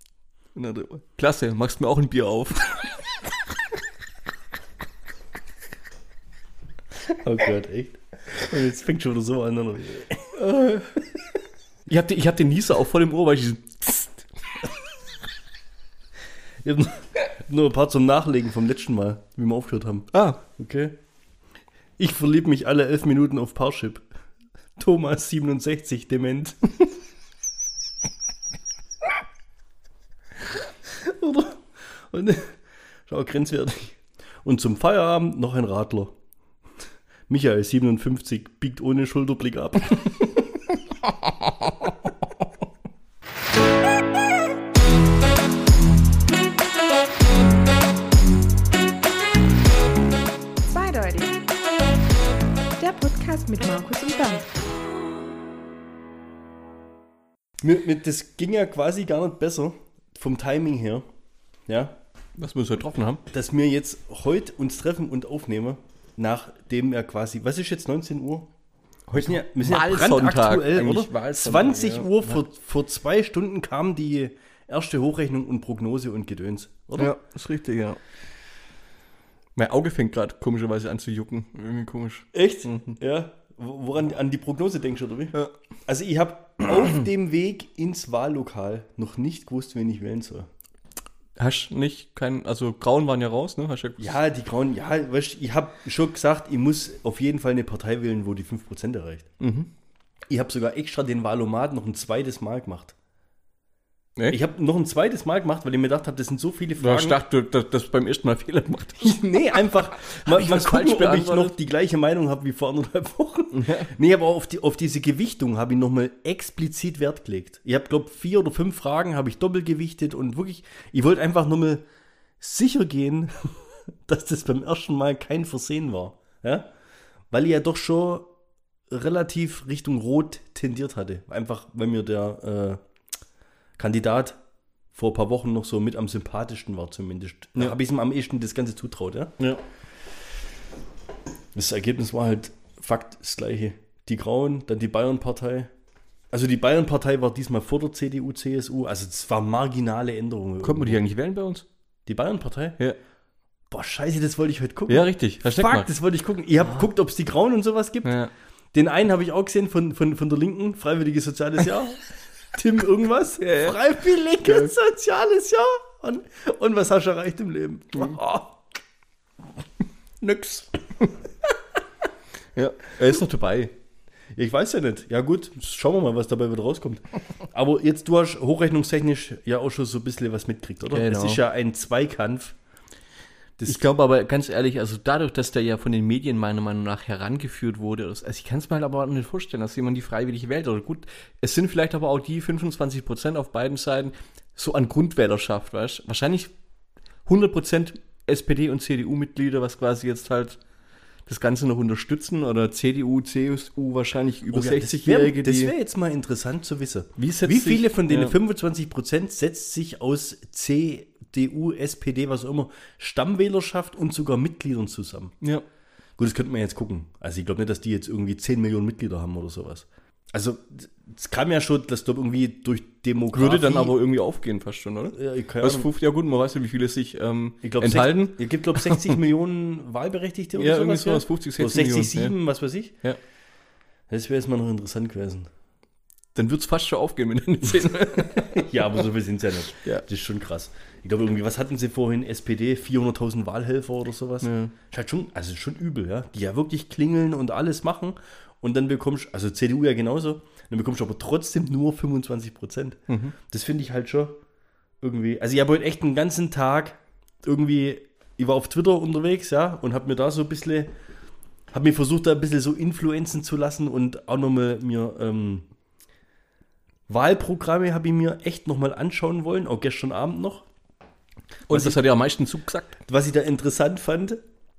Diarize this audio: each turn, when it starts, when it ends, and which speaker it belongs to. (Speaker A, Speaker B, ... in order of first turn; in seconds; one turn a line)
Speaker A: 0.6-3.1
Speaker B: 7.2-10.3
Speaker A: 10.4-11.0
Speaker A: 11.9-14.3
Speaker B: 16.6-21.0
Speaker A: 20.1-20.4
Speaker B: 22.0-24.0
Speaker B: 24.8-26.7
Speaker B: 30.9-36.1
Speaker B: 37.3-40.4
Speaker C: 50.7-51.5
Speaker C: 52.8-54.5
Speaker B: 57.6-61.1
Speaker B: 61.7-62.0
Speaker A: 62.4-63.2
Speaker B: 63.3-68.5
Speaker B: 69.1-77.1
Speaker A: 69.1-72.3
Speaker A: 77.0-78.0
Speaker A: 79.5-83.0
Speaker B: 82.3-90.5
Speaker A: 91.4-94.2
Speaker B: 94.0-99.3
Speaker A: 99.4-99.7
Speaker B: 100.3-102.9
Speaker B: 104.3-107.2
Speaker A: 106.8-109.3
Speaker B: 109.0-121.8
Speaker A: 110.0-111.5
Speaker A: 113.5-113.9
Speaker B: 122.4-126.7
Speaker B: 127.3-128.3
Speaker B: 128.9-132.8
Speaker B: 133.8-134.4
Speaker B: 134.9-139.3
Speaker B: 141.5-145.7
Speaker B: 146.3-151.0
Speaker A: 150.6-151.6
Speaker B: 152.1-152.8
Speaker B: 153.7-158.2
Speaker A: 154.9-155.9
Speaker A: 158.0-158.3
Speaker B: 158.7-168.6
Speaker A: 163.4-163.8
Speaker A: 164.4-164.7
Speaker A: 170.2-171.1
Speaker A: 172.5-173.7
Speaker B: 174.3-182.6
Speaker A: 180.9-181.4
Speaker B: 183.6-183.8
Speaker A: 183.7-196.5
Speaker A: 197.2-200.6
Speaker A: 201.2-205.7
Speaker B: 204.5-215.3
Speaker A: 207.2-208.3
Speaker B: 216.2-223.9
Speaker A: 223.3-229.2
Speaker B: 225.1-225.9
Speaker B: 227.6-232.9
Speaker A: 230.6-232.3
Speaker B: 234.1-235.5
Speaker A: 236.3-238.7
Speaker B: 238.5-254.4
Speaker A: 244.4-244.7
Speaker A: 253.1-253.3
Speaker B: 255.0-260.9
Speaker B: 261.7-265.7
Speaker B: 267.1-270.7
Speaker B: 271.7-272.0
Speaker A: 271.7-272.9
Speaker B: 273.0-274.4